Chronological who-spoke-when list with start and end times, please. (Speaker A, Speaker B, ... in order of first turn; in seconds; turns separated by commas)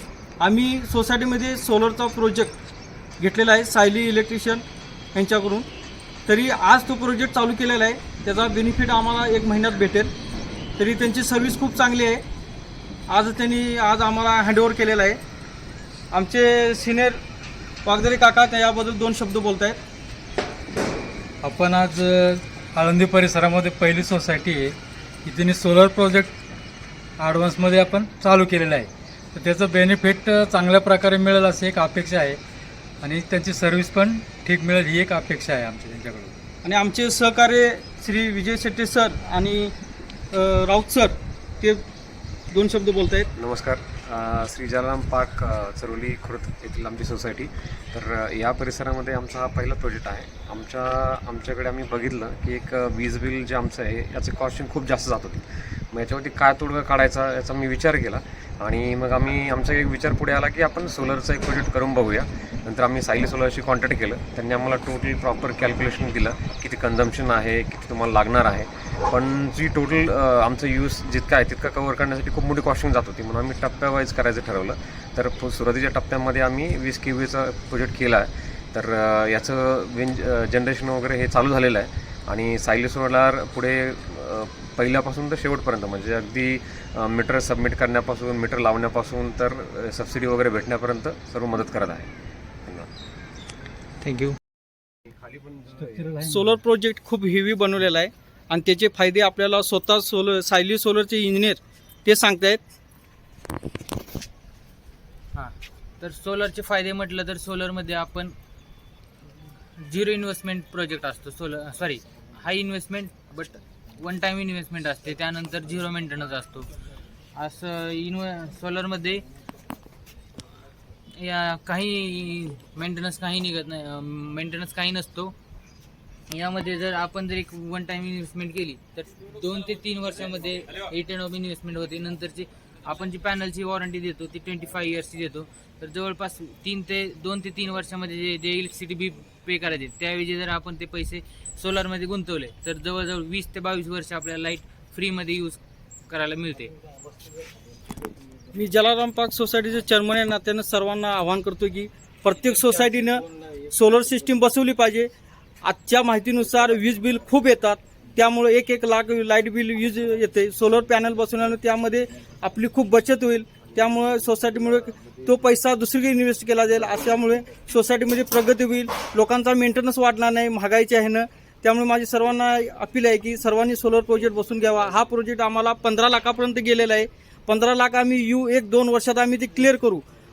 Speaker A: 0.4-2.5, Speaker A: 3.2-5.7, Speaker A: 6.3-10.1, Speaker A: 10.8-12.2, Speaker A: 13.1-15.2, Speaker A: 16.1-17.2, Speaker A: 17.8-19.8, Speaker B: 21.4-26.4, Speaker B: 27.2-32.4, Speaker B: 33.0-36.4, Speaker A: 36.6-39.8, Speaker A: 40.3-41.8, Speaker A: 42.5-43.3, Speaker C: 43.4-92.1, Speaker B: 94.0-94.4, Speaker B: 95.9-96.4, Speaker A: 96.2-102.6, Speaker D: 105.3-108.3, Speaker D: 109.8-116.7, Speaker D: 117.4-119.2, Speaker D: 121.2-125.3, Speaker D: 126.3-146.7, Speaker A: 148.5-155.1, Speaker A: 155.6-180.0